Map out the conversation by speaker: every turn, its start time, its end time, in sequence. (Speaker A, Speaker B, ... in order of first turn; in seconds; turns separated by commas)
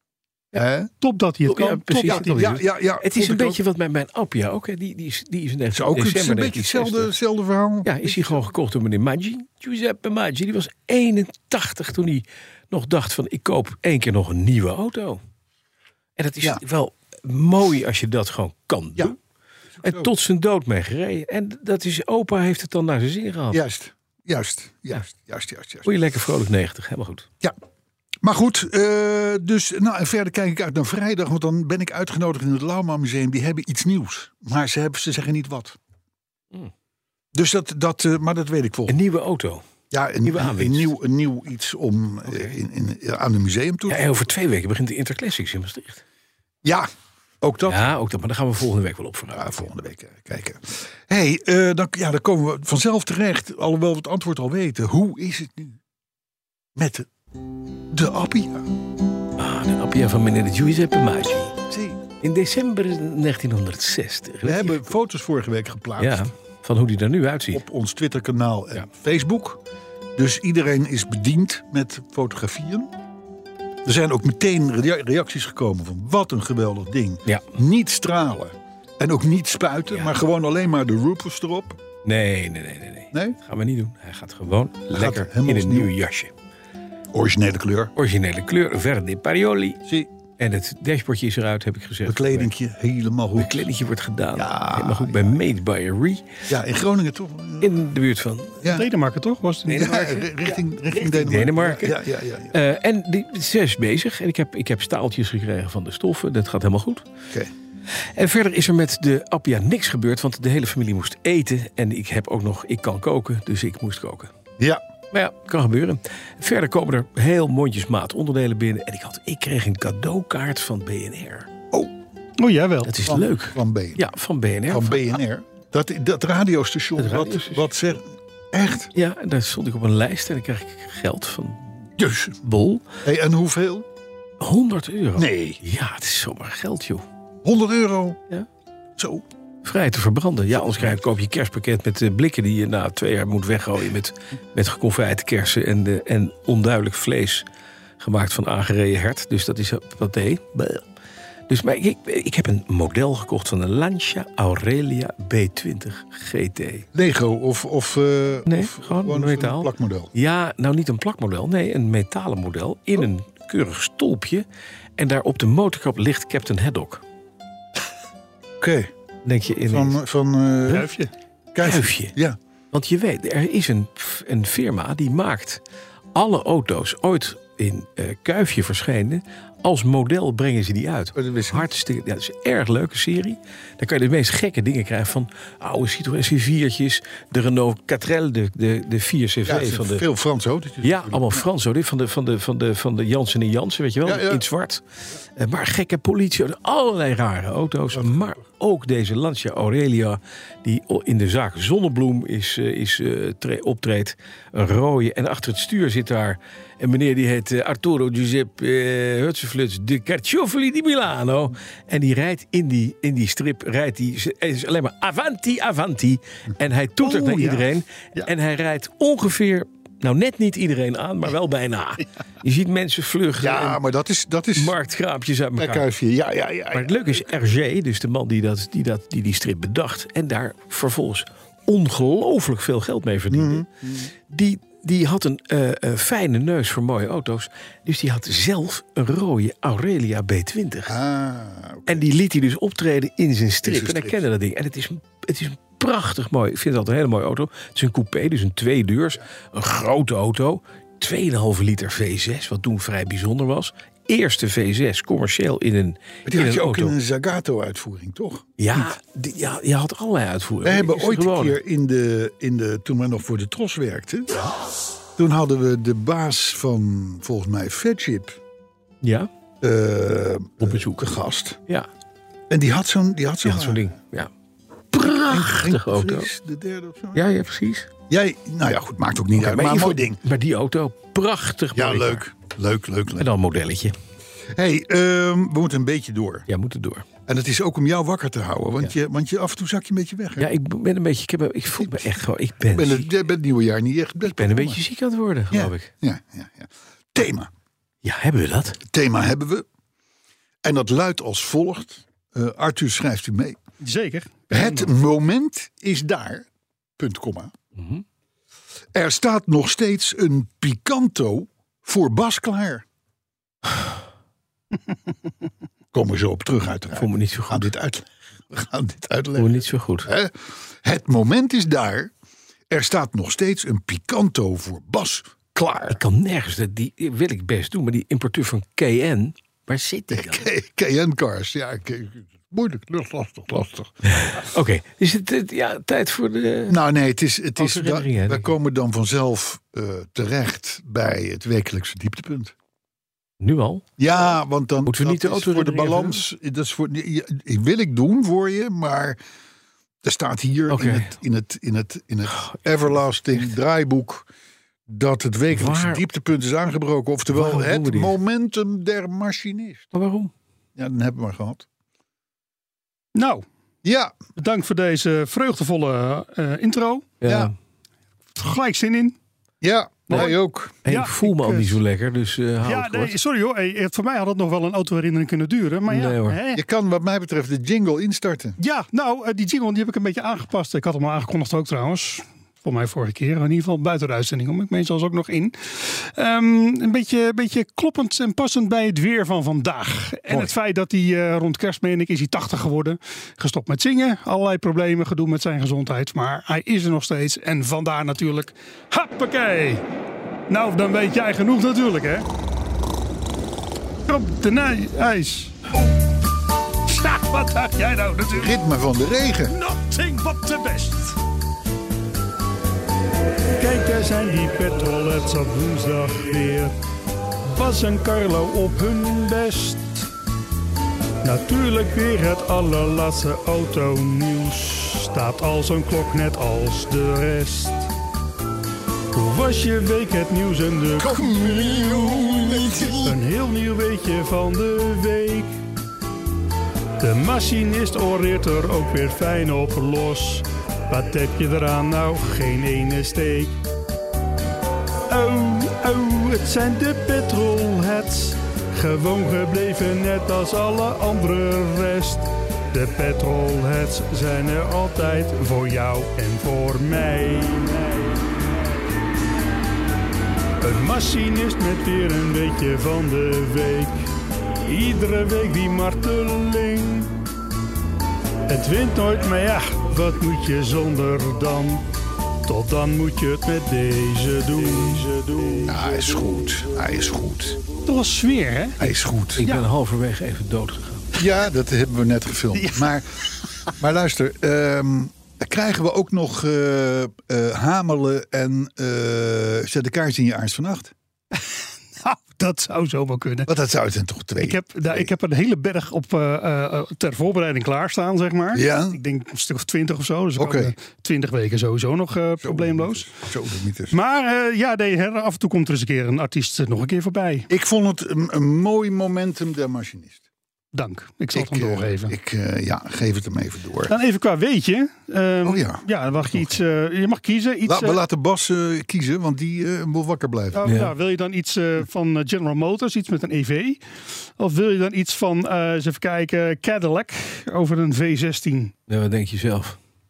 Speaker A: 0.5-0.9, Speaker B: 1.0-2.5, Speaker C: 1.4-7.1, Speaker A: 2.0-3.6, Speaker A: 5.7-8.4, Speaker C: 7.8-15.2, Speaker C: 16.2-19.1, Speaker A: 19.8-20.1, Speaker C: 19.8-23.6, Speaker A: 23.5-25.9, Speaker C: 25.9-27.3, Speaker A: 28.2-35.8, Speaker A: 37.3-39.0, Speaker C: 38.9-39.6, Speaker A: 39.9-44.2, Speaker C: 40.2-40.9, Speaker C: 42.2-42.6, Speaker C: 43.9-46.0, Speaker A: 47.4-47.9, Speaker C: 47.7-49.6, Speaker A: 49.3-55.8, Speaker A: 56.8-57.1, Speaker A: 57.9-58.7, Speaker C: 59.4-61.6, Speaker A: 61.7-62.0, Speaker C: 62.2-64.9, Speaker A: 64.4-66.3, Speaker C: 66.0-67.6, Speaker A: 67.5-69.6, Speaker A: 70.2-72.9, Speaker A: 73.8-81.8, Speaker C: 82.0-86.3, Speaker A: 83.1-83.4, Speaker A: 84.9-85.9, Speaker A: 87.1-87.9, Speaker C: 88.0-89.8, Speaker C: 90.4-92.5, Speaker A: 92.1-93.7, Speaker C: 93.4-96.2, Speaker A: 94.3-95.4, Speaker A: 96.5-97.7, Speaker C: 97.6-98.7, Speaker A: 98.6-98.9, Speaker B: 98.7-100.3, Speaker C: 99.7-107.1, Speaker A: 99.8-102.6, Speaker C: 108.0-114.3, Speaker C: 115.1-121.5, Speaker B: 122.4-122.9, Speaker C: 122.8-125.2, Speaker A: 123.0-124.0, Speaker A: 124.7-128.9, Speaker C: 127.0-127.7, Speaker C: 128.9-131.8, Speaker A: 132.0-132.4, Speaker C: 132.4-132.9, Speaker A: 133.0-133.9, Speaker C: 134.4-137.1, Speaker A: 135.2-135.6, Speaker A: 137.4-138.2, Speaker A: 139.0-139.2, Speaker C: 139.6-147.4, Speaker C: 148.0-150.8, Speaker C: 151.5-156.9, Speaker A: 156.9-160.1, Speaker C: 158.5-164.4, Speaker C: 165.0-167.0, Speaker A: 168.6-168.9, Speaker C: 169.2-170.0, Speaker A: 169.7-170.9, Speaker B: 170.7-171.1, Speaker A: 171.5-172.4, Speaker C: 171.6-172.1, Speaker C: 172.7-175.6, Speaker C: 176.1-190.1, Speaker A: 181.1-181.7, Speaker A: 189.4-191.4, Speaker C: 190.8-194.8, Speaker A: 194.0-194.4, Speaker C: 195.3-223.8, Speaker A: 197.9-198.4, Speaker B: 217.0-218.3, Speaker A: 223.4-224.8, Speaker C: 224.6-225.9, Speaker A: 225.6-227.1, Speaker C: 226.7-233.7, Speaker A: 233.3-234.1, Speaker C: 234.2-240.9, Speaker A: 240.9-242.1, Speaker C: 241.9-256.9, Speaker A: 243.6-244.2, Speaker A: 256.3-258.9, Speaker C: 258.6-261.6, Speaker A: 260.6-264.5, Speaker A: 265.1-268.4, Speaker C: 269.0-269.3, Speaker A: 269.6-271.6, Speaker C: 270.6-271.1, Speaker A: 272.5-273.9, Speaker C: 273.4-274.3, Speaker C: 274.9-276.3, Speaker A: 275.0-277.2, Speaker C: 277.1-277.9, Speaker A: 278.1-280.2, Speaker C: 279.4-282.2, Speaker A: 281.7-283.3, Speaker C: 283.1-283.9, Speaker A: 284.5-286.5, Speaker C: 286.5-287.1, Speaker A: 287.3-290.5, Speaker C: 290.4-293.1, Speaker A: 292.7-294.8, Speaker C: 294.2-295.9, Speaker A: 295.5-297.5, Speaker C: 298.0-298.8, Speaker A: 298.9-299.6, Speaker A: 300.6-303.6, Speaker B: 303.8-304.9, Speaker A: 304.5-306.4, Speaker A: 307.0-307.5, Speaker C: 307.8-308.0, Speaker A: 308.9-312.9, Speaker A: 315.9-322.1, Speaker C: 316.9-317.7, Speaker C: 319.4-320.1, Speaker A: 322.7-326.0, Speaker C: 325.9-330.4, Speaker A: 330.1-334.4, Speaker C: 334.0-336.8, Speaker A: 336.7-342.5, Speaker C: 337.6-338.5, Speaker C: 343.4-343.9, Speaker A: 344.0-349.2, Speaker C: 344.9-346.2, Speaker A: 350.0-354.3, Speaker C: 350.7-351.1, Speaker A: 354.9-359.9, Speaker C: 355.5-356.1, Speaker C: 357.3-358.1, Speaker C: 359.9-360.3, Speaker A: 360.8-361.6, Speaker B: 363.1-363.4, Speaker A: 363.8-364.1, Speaker B: 364.4-367.1, Speaker C: 367.2-367.5, Speaker A: 367.2-367.5, Speaker B: 368.4-369.1, Speaker A: 369.6-370.8, Speaker B: 370.1-370.4, Speaker C: 370.9-373.1, Speaker B: 370.9-371.8, Speaker B: 372.6-376.6, Speaker C: 375.9-376.4, Speaker A: 376.6-378.6, Speaker B: 378.6-399.8, Speaker B: 400.5-402.3, Speaker B: 404.1-405.6, Speaker B: 406.9-408.6, Speaker A: 408.3-409.5, Speaker B: 409.5-411.2, Speaker B: 413.6-416.8, Speaker B: 417.5-420.1, Speaker B: 421.2-427.9, Speaker B: 429.1-435.6, Speaker A: 431.0-433.1, Speaker B: 437.0-443.5, Speaker B: 445.1-458.2, Speaker B: 460.6-464.1, Speaker B: 464.6-467.1, Speaker B: 468.5-471.9, Speaker B: 472.4-475.7, Speaker A: 475.7-477.6, Speaker B: 477.9-478.8, Speaker A: 478.8-479.4, Speaker C: 478.8-481.1, Speaker B: 479.4-479.6, Speaker A: 481.1-490.9, Speaker B: 482.6-482.9, Speaker B: 492.0-493.5, Speaker A: 493.5-495.1, Speaker B: 494.4-503.1, Speaker A: 498.5-499.0, Speaker A: 500.4-500.7, Speaker A: 502.4-503.9, Speaker B: 503.9-507.5, Speaker A: 507.5-510.2, Speaker B: 510.7-512.1, Speaker A: 511.3-513.9, Speaker B: 513.9-518.0, Speaker A: 515.4-516.6, Speaker A: 517.6-520.7, Speaker B: 520.5-523.8, Speaker C: 520.6-520.9, Speaker B: 524.4-528.8, Speaker C: 528.9-529.8